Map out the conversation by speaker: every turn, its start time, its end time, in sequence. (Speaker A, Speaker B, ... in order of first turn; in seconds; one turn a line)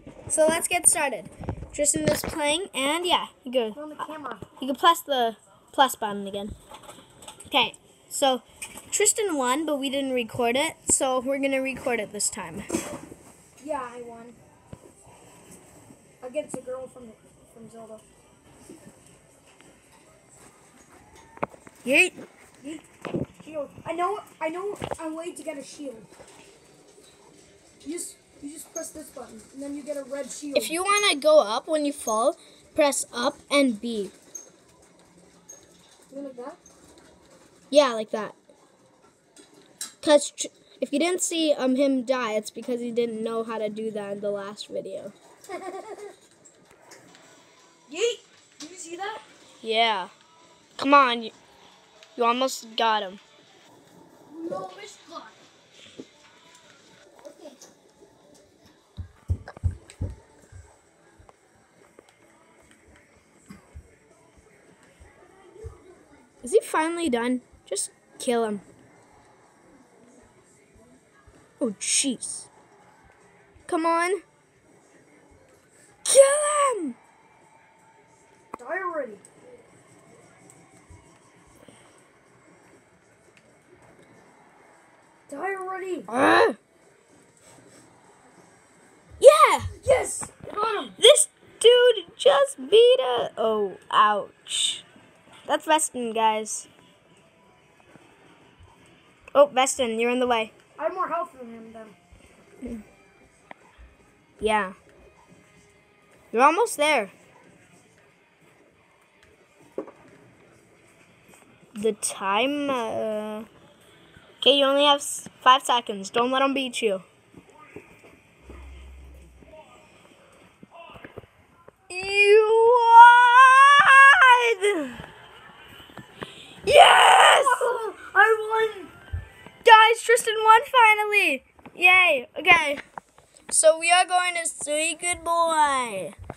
Speaker A: 0.3-4.1
Speaker B: 3.7-4.4
Speaker A: 4.6-6.5
Speaker A: 7.5-12.7
Speaker B: 13.6-14.4
Speaker B: 16.2-18.1
Speaker A: 21.9-22.2
Speaker B: 23.4-26.1
Speaker B: 27.8-30.8
Speaker A: 30.6-34.1
Speaker B: 36.1-36.6
Speaker A: 37.7-38.4
Speaker A: 40.0-45.1
Speaker B: 45.5-46.1
Speaker B: 47.9-49.2
Speaker A: 49.6-50.1
Speaker A: 50.8-51.3
Speaker A: 52.2-53.2
Speaker B: 54.3-55.4
Speaker A: 66.4-68.7
Speaker A: 71.6-72.5
Speaker A: 73.7-74.2
Speaker A: 76.0-77.0
Speaker B: 78.6-79.2
Speaker B: 85.3-86.1
Speaker A: 86.1-86.6
Speaker A: 89.2-89.7
Speaker B: 89.8-91.0
Speaker A: 91.0-94.8
Speaker A: 95.5-96.7
Speaker A: 99.3-100.5
Speaker B: 100.8-102.0
Speaker A: 104.4-104.8
Speaker A: 106.3-107.1
Speaker A: 111.7-113.5
Speaker A: 114.4-117.1
Speaker A: 121.9-125.0
Speaker A: 126.7-127.7
Speaker B: 127.4-128.9
Speaker A: 129.6-132.8
Speaker A: 133.5-136.2